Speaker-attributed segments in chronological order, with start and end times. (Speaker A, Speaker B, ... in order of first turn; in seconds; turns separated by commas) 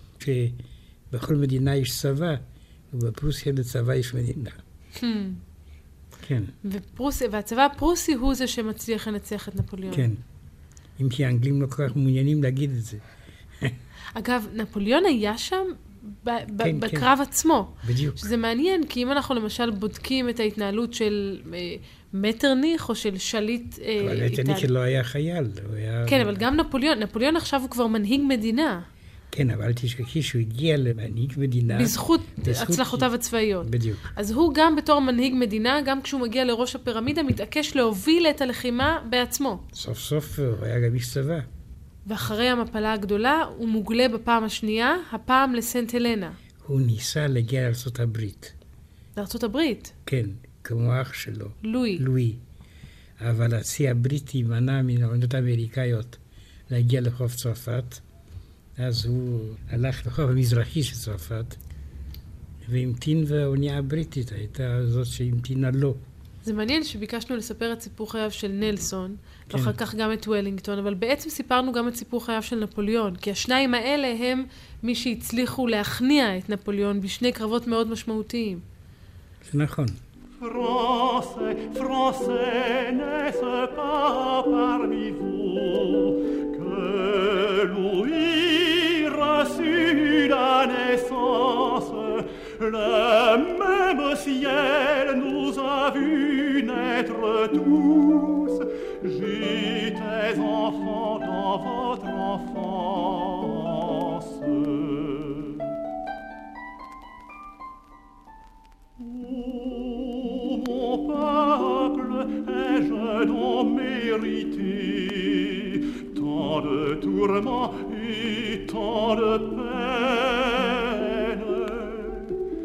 Speaker A: 0.2-4.6, Speaker B: 5.0-5.4, Speaker A: 6.2-6.5, Speaker B: 6.6-10.1, Speaker A: 9.9-10.2, Speaker A: 11.0-13.0, Speaker B: 14.1-24.7, Speaker A: 16.6-17.1, Speaker A: 17.8-18.3, Speaker A: 24.0-26.4, Speaker B: 26.1-28.9, Speaker A: 29.3-33.1, Speaker B: 31.7-39.6, Speaker A: 33.6-34.1, Speaker A: 39.7-41.5, Speaker B: 42.1-46.4, Speaker A: 46.6-48.5, Speaker B: 49.1-49.9, Speaker A: 50.0-52.4, Speaker B: 51.6-52.0, Speaker A: 53.2-58.0, Speaker A: 58.8-61.6, Speaker A: 62.6-66.0, Speaker B: 66.4-78.6, Speaker A: 69.5-69.8, Speaker A: 79.4-80.0, Speaker C: 80.4-105.7, Speaker C: 109.0-122.4